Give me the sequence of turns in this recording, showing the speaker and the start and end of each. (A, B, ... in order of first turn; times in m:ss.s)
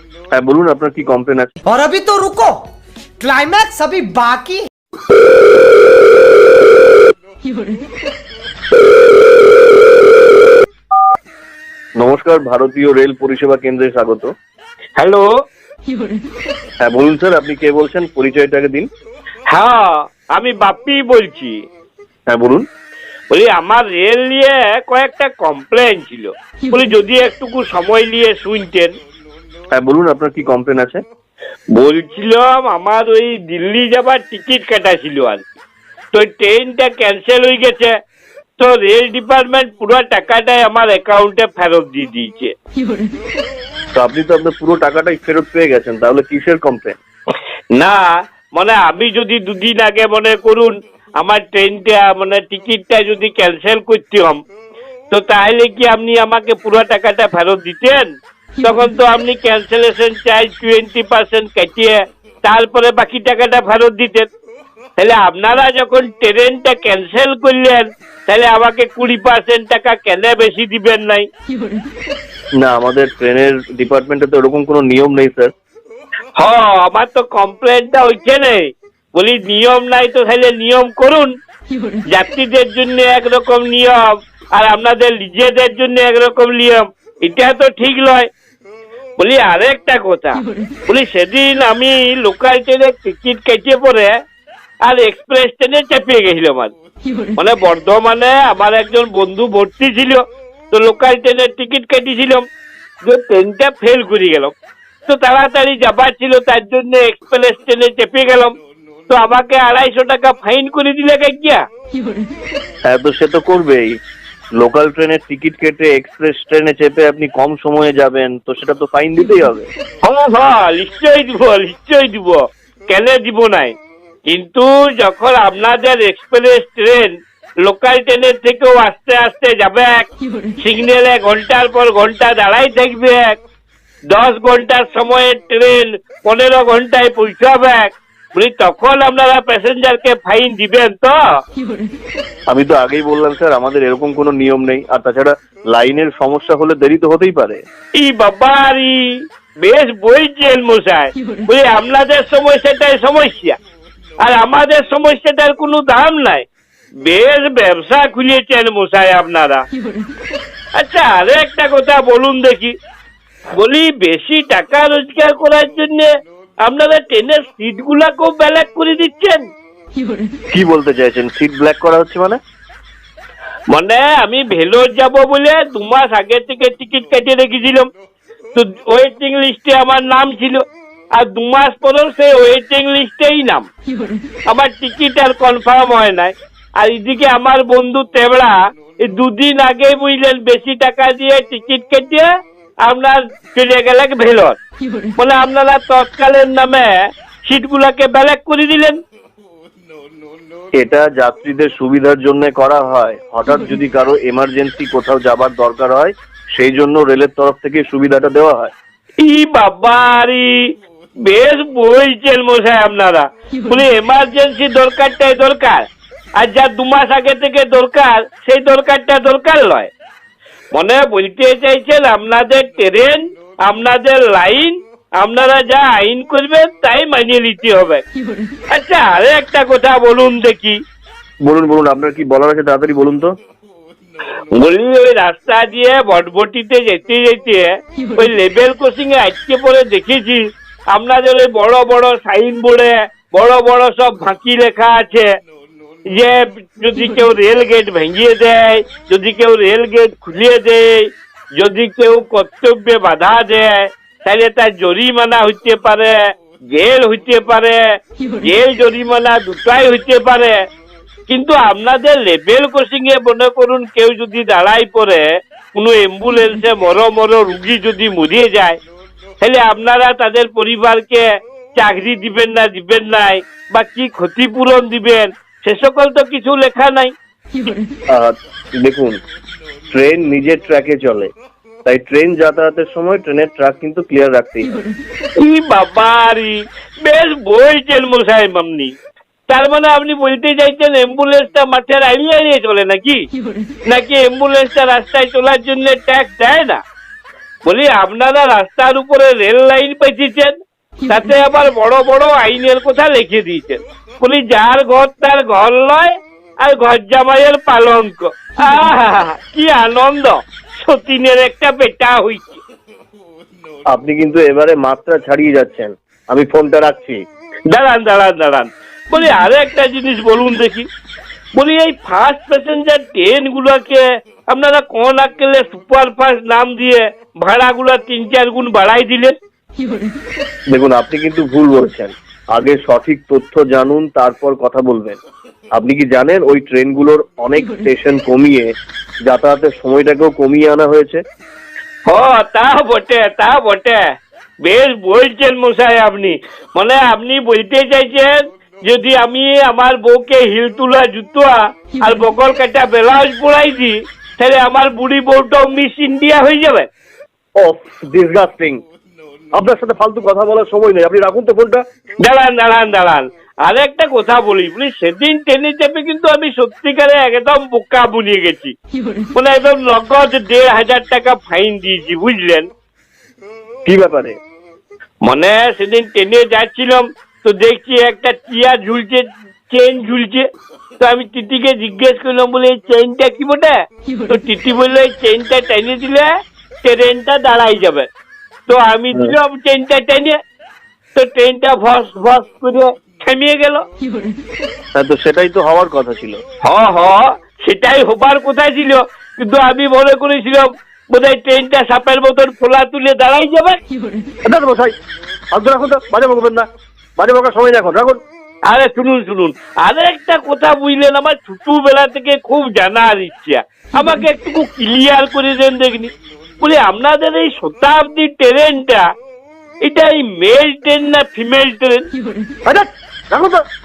0:00.4-0:01.5 A
0:01.7-0:02.6 B
0:03.2-0:04.6 B
0:12.0-0:14.3 A
0:15.0-0:15.3 C
0:16.8-0:18.9 A
0:19.5-0:21.6 C
0:22.3-0:22.6 A
0:23.3-0:28.9 C
0:29.8-0:31.0 A
0:31.7-0:35.4 C
0:36.1-0:37.9 C
0:38.6-0:42.5 C
0:44.0-0:47.0 A
0:47.8-0:54.4 C
0:55.1-0:58.1 C
0:58.6-1:04.3 C
1:05.0-1:11.3 C
1:12.6-1:15.5 A
1:16.4-1:21.3 C
1:22.1-1:28.3 C
1:29.2-1:34.2 C
1:34.8-1:36.7 C
1:37.4-1:42.4 C
1:43.0-1:44.5 C
1:45.1-1:48.5 C
1:49.1-1:51.6 C
1:52.9-1:54.0 A
1:54.6-1:59.7 A
2:00.0-2:03.7 C
2:04.3-2:10.1 C
2:10.6-2:13.4 C
2:14.1-2:21.2 C
2:22.5-2:27.6 A
2:28.0-2:33.6 C
2:34.2-2:36.4 C
2:37.0-2:39.6 C
2:40.8-2:42.8 C
2:43.6-2:46.1 C
2:46.6-2:49.4 C
2:50.5-2:52.4 A
2:53.7-2:57.9 C
2:58.6-3:00.6 C
3:01.1-3:03.7 C
3:04.5-3:12.3 C
3:12.8-3:14.6 C
3:15.2-3:19.0 C
3:20.8-3:28.7 A
3:29.2-3:30.6 C
3:31.2-3:35.8 C
3:36.4-3:39.9 C
3:40.7-3:48.0 C
3:48.7-3:50.8 C
3:51.4-3:53.3 A
3:54.5-4:00.4 C
4:00.9-4:05.3 C
4:06.1-4:16.2 C
4:16.7-4:17.8 C
4:18.4-4:20.6 C
4:21.3-4:28.8 C
4:29.4-4:37.1 C
4:38.1-4:39.2 A
4:39.9-4:41.3 A
4:41.9-4:44.7 A
4:45.4-4:48.9 C
4:49.5-4:53.2 C
4:53.9-4:56.8 C
4:57.7-5:00.5 C
5:01.1-5:12.6 C
5:13.9-5:17.2 A
5:17.7-5:20.9 C
5:21.6-5:29.3 C
5:30.7-5:35.2 A
5:35.8-5:38.7 A
5:39.3-5:41.2 A
5:42.1-5:44.0 C
5:44.6-5:56.9 C
5:57.6-5:58.8 A
5:59.6-6:01.8 A
6:02.2-6:08.7 C
6:09.4-6:12.7 C
6:13.9-6:14.4 A
6:15.2-6:20.4 C
6:21.0-6:23.8 C
6:24.3-6:26.3 C
6:26.8-6:28.1 C
6:28.7-6:30.4 C
6:31.2-6:33.8 C
6:35.0-6:36.4 A
6:36.6-6:43.8 C
6:44.5-6:44.9 A
6:45.5-6:46.7 A
6:47.2-6:48.2 A
6:48.7-6:59.1 C
6:59.8-7:02.1 C
7:02.7-7:03.6 A